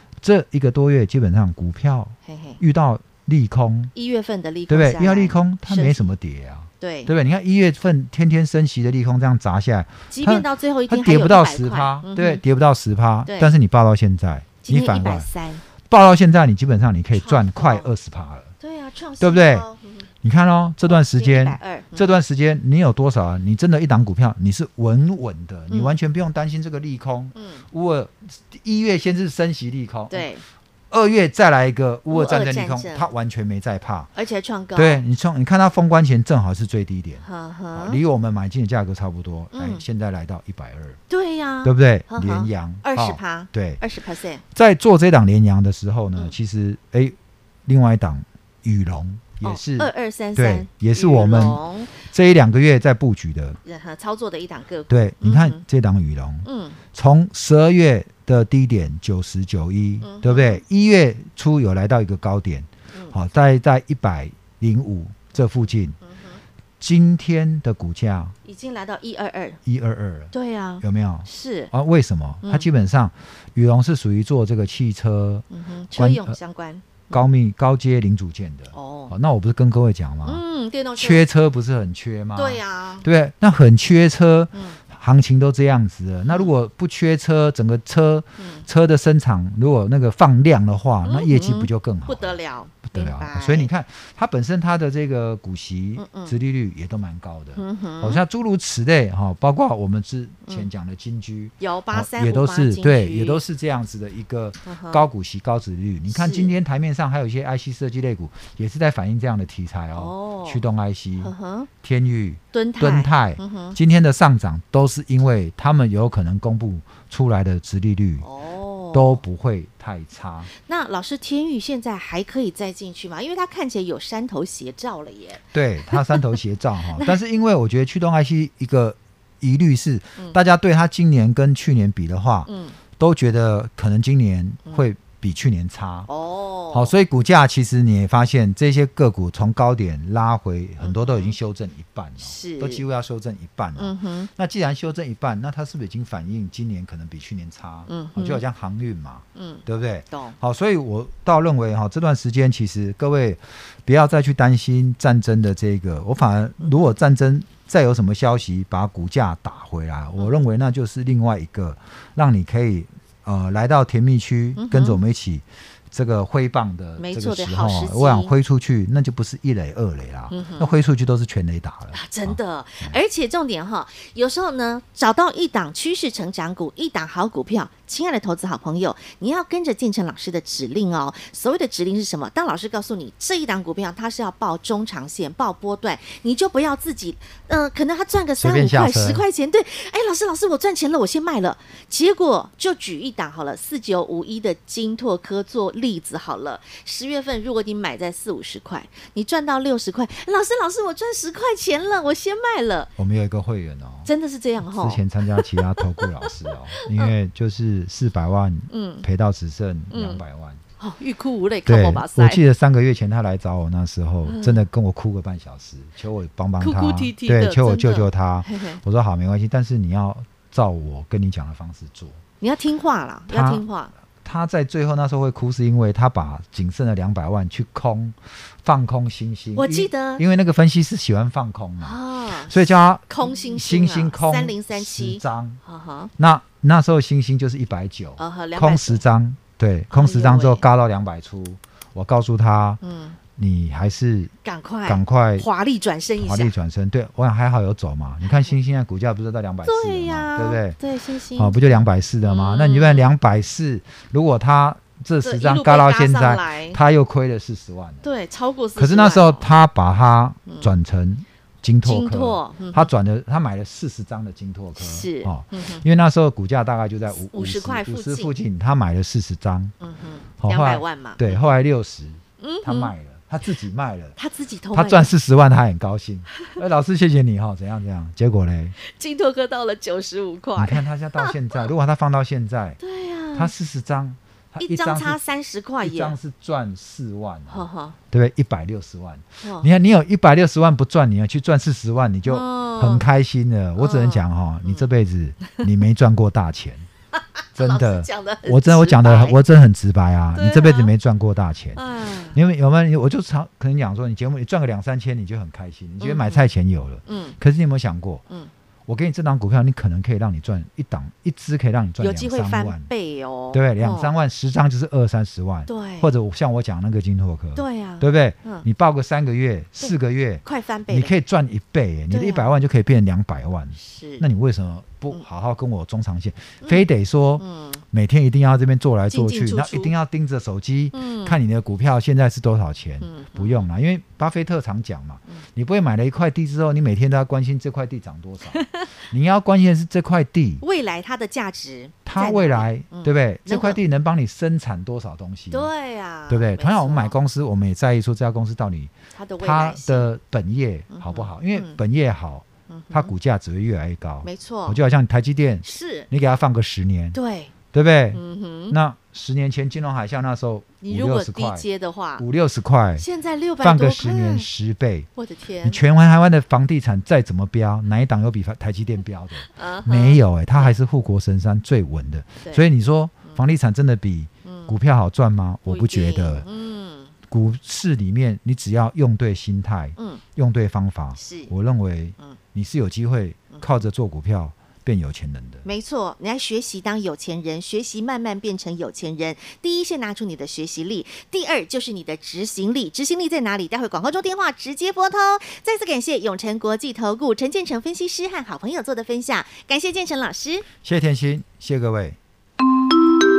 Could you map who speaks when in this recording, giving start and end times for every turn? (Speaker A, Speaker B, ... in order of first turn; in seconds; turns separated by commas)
Speaker A: 0.2-3.9, Speaker B: 2.3-2.6, Speaker B: 4.0-6.1, Speaker A: 4.7-15.3, Speaker B: 6.8-7.1, Speaker B: 10.1-12.4, Speaker B: 13.3-13.5, Speaker B: 14.6-15.6, Speaker A: 15.9-18.5, Speaker B: 17.1-17.9, Speaker B: 18.6-20.1, Speaker A: 19.2-19.7, Speaker A: 20.2-30.3, Speaker B: 20.9-22.1, Speaker B: 25.7-25.9, Speaker B: 27.4-27.6, Speaker B: 30.1-30.4, Speaker A: 30.9-34.1, Speaker B: 32.1-33.1, Speaker B: 34.1-35.0, Speaker A: 34.8-41.0, Speaker B: 37.2-38.0, Speaker B: 39.5-39.8, Speaker B: 41.1-44.4, Speaker A: 41.6-43.8, Speaker A: 44.5-53.6, Speaker B: 49.4-52.0, Speaker B: 53.6-55.6, Speaker A: 54.9-66.0, Speaker B: 56.4-56.8, Speaker B: 60.0-60.6, Speaker B: 66.0-66.4, Speaker A: 66.8-68.3, Speaker B: 68.5-69.6, Speaker A: 69.7-76.4, Speaker B: 70.3-71.7, Speaker B: 75.5-77.3, Speaker A: 77.1-80.4, Speaker B: 78.7-79.1, Speaker B: 80.3-81.2, Speaker A: 81.0-118.3, Speaker B: 82.4-83.1, Speaker B: 84.5-84.8, Speaker B: 88.4-88.7, Speaker B: 91.0-93.7, Speaker B: 96.0-96.3, Speaker B: 97.6-98.2, Speaker B: 101.6-103.4, Speaker B: 104.7-105.1, Speaker B: 106.1-106.5, Speaker B: 109.9-110.6, Speaker B: 111.2-111.7, Speaker B: 112.5-113.8, Speaker B: 118.2-119.2, Speaker A: 118.9-120.5, Speaker B: 120.5-126.3, Speaker A: 125.5-136.1, Speaker B: 132.5-132.8, Speaker B: 136.1-136.9, Speaker A: 136.7-173.0, Speaker B: 140.8-141.4, Speaker B: 142.2-142.8, Speaker B: 143.8-144.3, Speaker B: 147.9-148.4, Speaker B: 149.4-150.4, Speaker B: 164.6-165.0, Speaker B: 167.0-168.3, Speaker B: 170.3-170.7, Speaker B: 171.9-202.9, Speaker A: 188.4-189.2, Speaker A: 203.0-204.1, Speaker B: 204.1-207.1, Speaker A: 204.6-210.6, Speaker B: 208.7-209.1, Speaker B: 209.9-210.2, Speaker B: 210.8-212.4, Speaker A: 211.7-222.2, Speaker B: 214.2-214.6, Speaker B: 216.6-218.8, Speaker B: 222.4-223.9, Speaker A: 223.3-223.6, Speaker A: 224.2-235.6, Speaker B: 229.6-230.2, Speaker B: 231.8-236.1, Speaker A: 236.2-242.8, Speaker B: 238.2-239.0, Speaker B: 239.9-240.6, Speaker B: 242.8-243.2, Speaker A: 243.4-244.3, Speaker B: 244.4-246.6, Speaker A: 244.8-245.5, Speaker A: 246.2-250.8, Speaker B: 248.2-248.5, Speaker B: 249.6-251.6, Speaker A: 251.3-258.1, Speaker B: 252.2-253.1, Speaker B: 255.2-256.8, Speaker B: 258.0-259.5, Speaker A: 258.8-269.8, Speaker B: 261.9-262.9, Speaker B: 264.8-265.9, Speaker B: 267.2-268.3, Speaker B: 269.8-271.5, Speaker A: 270.4-274.2, Speaker B: 272.4-272.9, Speaker B: 274.2-275.1, Speaker A: 274.7-278.8, Speaker B: 278.8-281.6, Speaker A: 280.6-282.8, Speaker B: 282.8-283.5, Speaker A: 283.4-285.2, Speaker B: 284.6-286.2, Speaker A: 285.8-296.9, Speaker B: 287.5-288.0, Speaker B: 289.4-289.7, Speaker B: 292.3-293.1, Speaker B: 293.8-294.9, Speaker B: 297.1-299.4, Speaker A: 297.6-308.2, Speaker B: 300.3-300.9, Speaker B: 301.8-302.4, Speaker B: 306.0-306.4, Speaker B: 307.1-307.4, Speaker A: 308.9-312.9, Speaker B: 312.0-314.1, Speaker A: 313.5-340.6, Speaker B: 315.7-316.1, Speaker B: 317.6-318.7, Speaker B: 319.8-321.1, Speaker B: 322.1-322.5, Speaker B: 323.8-324.2, Speaker B: 327.4-327.8, Speaker B: 329.1-329.9, Speaker B: 330.9-331.4, Speaker B: 333.0-333.7, Speaker B: 338.5-338.9, Speaker B: 340.6-343.8, Speaker A: 342.1-345.7, Speaker B: 345.5-347.2, Speaker A: 346.3-357.2, Speaker B: 349.1-350.1, Speaker B: 350.9-351.8, Speaker B: 352.7-353.1, Speaker B: 354.2-354.8, Speaker B: 355.6-356.1, Speaker B: 357.1-357.5, Speaker A: 357.7-361.6, Speaker B: 358.1-358.8, Speaker B: 360.8-362.2, Speaker A: 362.2-363.1, Speaker B: 363.0-364.5, Speaker A: 363.6-365.1, Speaker B: 365.2-365.8, Speaker A: 365.6-376.5, Speaker B: 369.5-370.8, Speaker B: 374.4-374.7, Speaker B: 375.7-377.1, Speaker A: 377.3-385.7, Speaker B: 380.0-380.2, Speaker B: 381.2-381.5, Speaker B: 385.6-400.7, Speaker A: 400.8-402.2